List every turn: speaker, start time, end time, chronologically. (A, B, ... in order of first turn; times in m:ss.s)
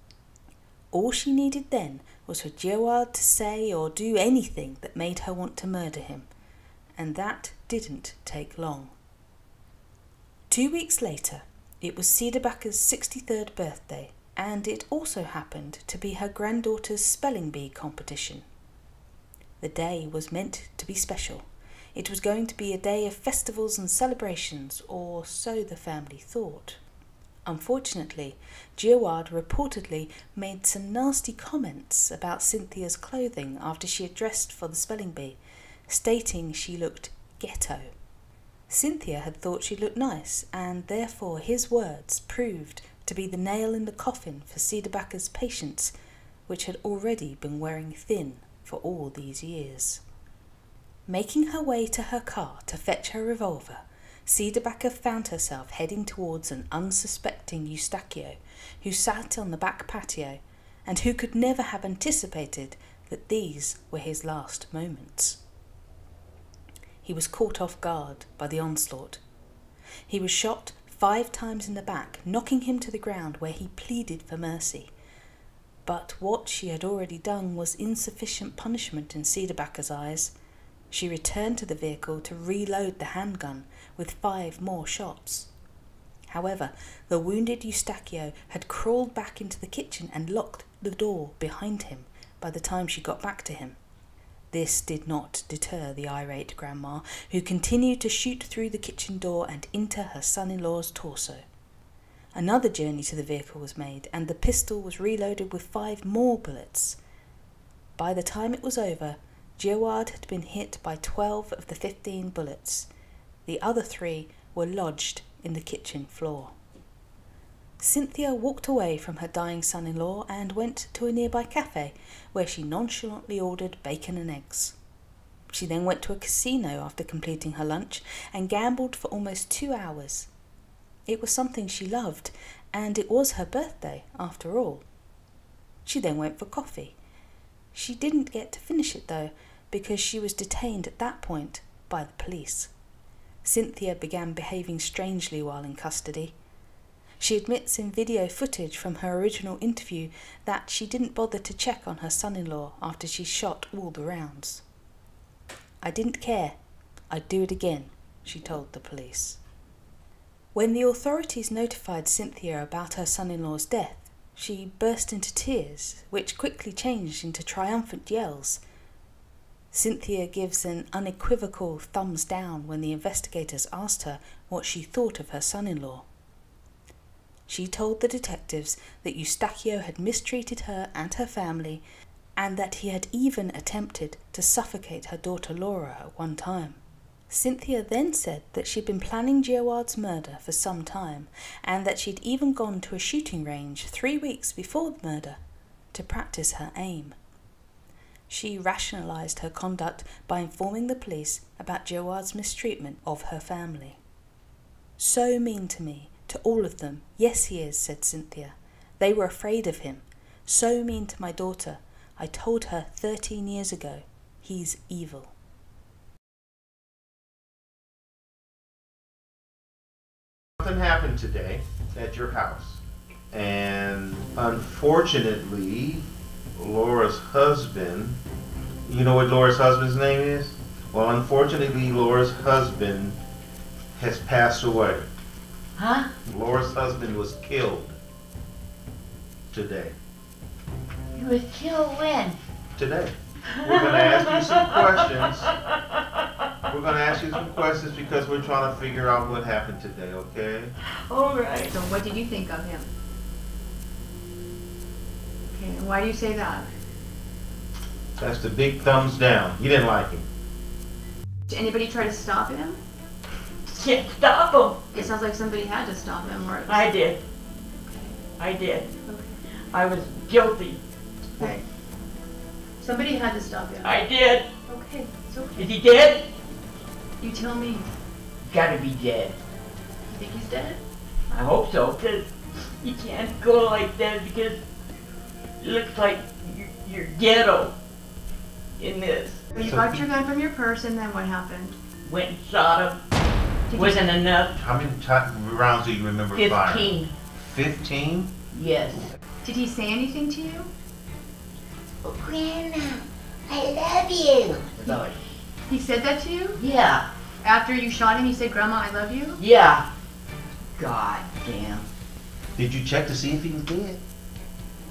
0:00.9-0:06.3 A
0:07.0-0:08.9 A
0:10.5-0:18.4 A
0:19.6-0:26.8 A
0:27.4-0:37.9 A
0:38.7-0:45.9 A
0:46.5-0:50.0 A
0:51.1-1:05.4 A
1:07.0-1:09.2 A
1:10.1-1:14.9 A
1:15.8-1:20.3 A
1:20.9-1:25.5 A
1:26.3-1:33.8 A
1:34.5-1:41.4 A
1:42.3-1:47.0 A
1:48.0-1:52.9 A
1:53.4-1:56.5 A
1:57.8-2:04.8 A
2:05.5-2:10.3 A
2:11.1-2:14.8 A
2:15.8-2:17.0 A
2:17.7-2:22.7 A
2:23.4-2:26.3 A
2:27.2-2:34.6 A
2:35.8-2:36.6 A
2:37.1-2:39.4 A
2:40.5-2:48.6 A
2:49.7-2:56.0 A
2:57.5-3:01.8 A
3:02.4-3:06.8 A
3:07.3-3:15.4 A
3:15.9-3:17.2 A
3:18.3-3:24.0 A
3:25.0-3:35.3 A
3:40.6-3:46.0 B
3:46.6-3:48.2 B
3:48.8-3:53.2 B
3:53.9-3:55.1 B
3:55.8-3:56.1 C
3:56.2-3:58.0 B
3:59.5-3:59.9 B
4:01.1-4:02.4 C
4:02.8-4:05.5 B
4:03.6-4:06.2 C
4:06.7-4:10.7 B
4:11.1-4:11.7 C
4:11.7-4:12.9 D
4:15.5-4:16.7 D
4:18.2-4:20.3 B
4:21.5-4:22.8 D
4:23.8-4:24.9 C
4:24.9-4:26.8 D
4:26.6-4:27.2 C
4:28.4-4:28.9 C
4:29.0-4:29.4 D
4:29.7-4:30.8 C
4:32.8-4:33.9 D
4:33.8-4:34.5 C
4:34.7-4:35.7 D
4:35.6-4:36.3 C
4:37.2-4:37.9 D
4:38.4-4:39.4 C
4:40.1-4:40.8 D
4:41.3-4:42.3 C
4:42.8-4:44.6 C
4:45.6-4:47.7 C
4:48.8-4:49.4 C
4:49.6-4:51.8 D
4:49.6-4:50.0 B
4:52.0-4:53.0 C
4:53.7-4:54.0 D
4:53.7-4:54.5 C
4:54.6-4:58.3 B
4:56.3-4:57.1 C
4:58.5-4:59.1 C
4:59.4-5:00.7 D
5:02.0-5:05.2 C
5:05.7-5:06.6 D
5:06.6-5:07.1 C
5:07.4-5:09.4 D
5:09.4-5:09.8 C
5:10.8-5:11.9 C
5:12.6-5:14.0 B